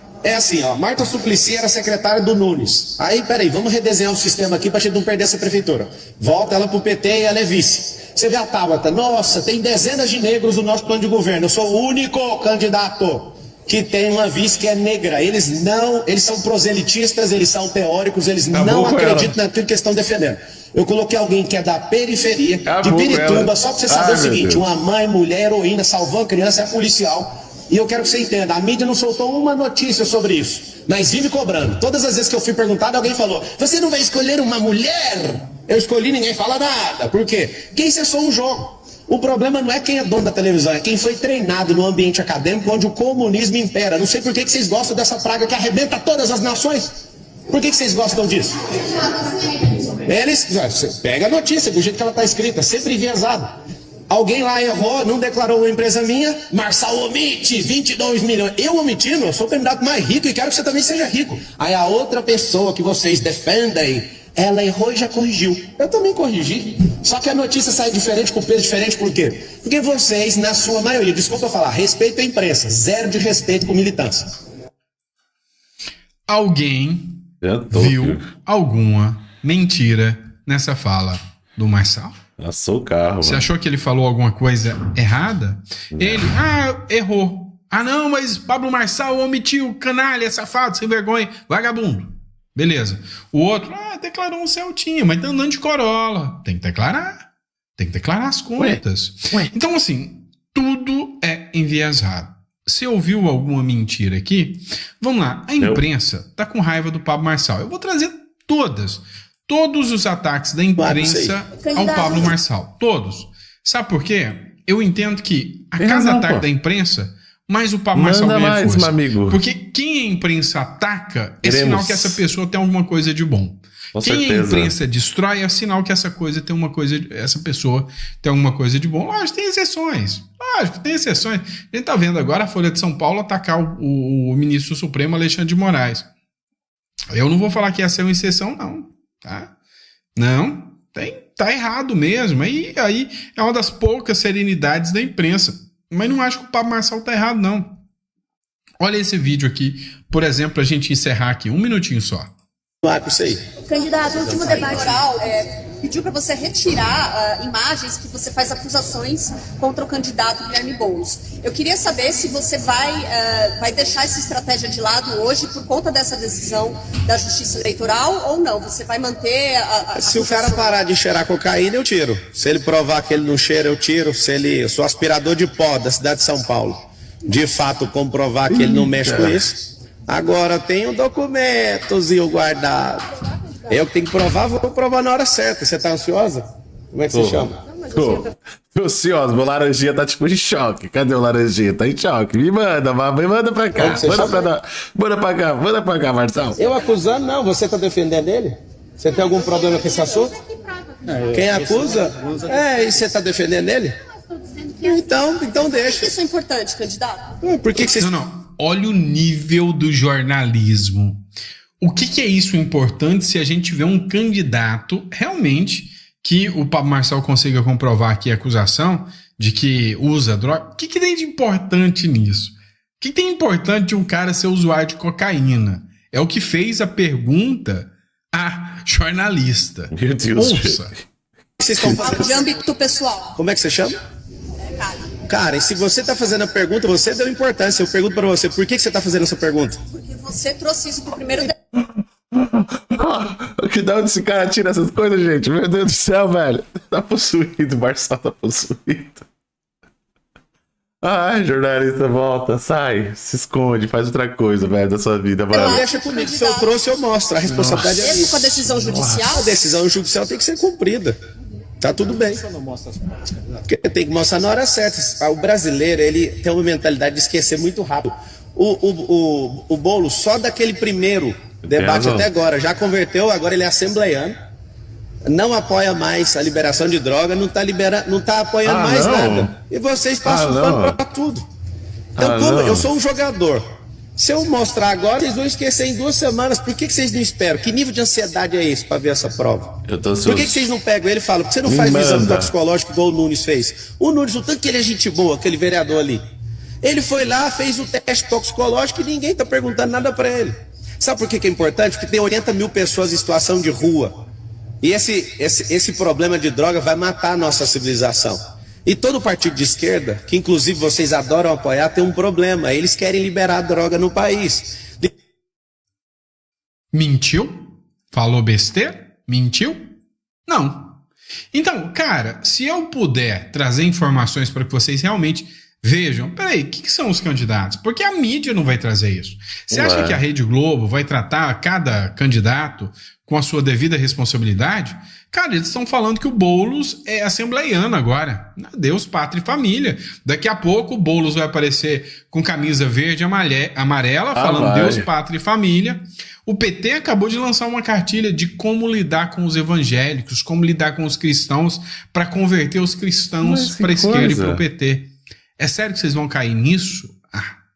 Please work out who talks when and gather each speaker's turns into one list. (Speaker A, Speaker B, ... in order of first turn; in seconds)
Speaker A: 0.2-46.9, 47.5-53.5, 54.1-74.3, 110.8-111.4, 152.8-153.4, 169.9-183.1, 183.7-187.6, 193.7-194.5, 196.6-200.3, 201.3-203.9, 204.8-206.2, 207.4-208.1, 231.6-232.5, 233.4-234.0, 235.2-239.8, 255.5-261.2, 261.8-262.5, 263.6-274.4, 275.3-281.4, 282.2-283.6, 284.2-296.2, 296.8-304.1, 304.8-315.1
Speaker B: 18.5-19.4, 22.7-24.6, 77.4-78.2, 82.4-83.5, 85.9-86.3, 98.6-99.5, 105.6-105.8, 115.8-116.5, 117.9-119.4, 121.4-122.2, 124.0-124.7, 178.5-179.4, 187.1-196.6, 229.9-230.8, 241.7-249.2, 251.0-255.9, 257.5-257.9, 258.8-259.3, 271.6-272.3, 278.6-279.6, 280.3-281.0, 282.2-282.9, 289.9-290.7, 291.6-292.5, 329.7-330.2, 344.4-345.1, 353.4-354.6
Speaker C: 76.3-82.2, 83.2-136.1, 137.1-139.5, 140.2-147.8, 148.8-152.3, 208.0-211.2, 211.8-230.9, 316.9-319.9, 320.5-321.0, 321.5-357.6
Speaker D: 111.8-112.2, 153.6-170.7, 205.6-207.3, 232.0-233.3, 234.8-235.1, 240.0-241.5, 255.6-256.7, 258.0-259.5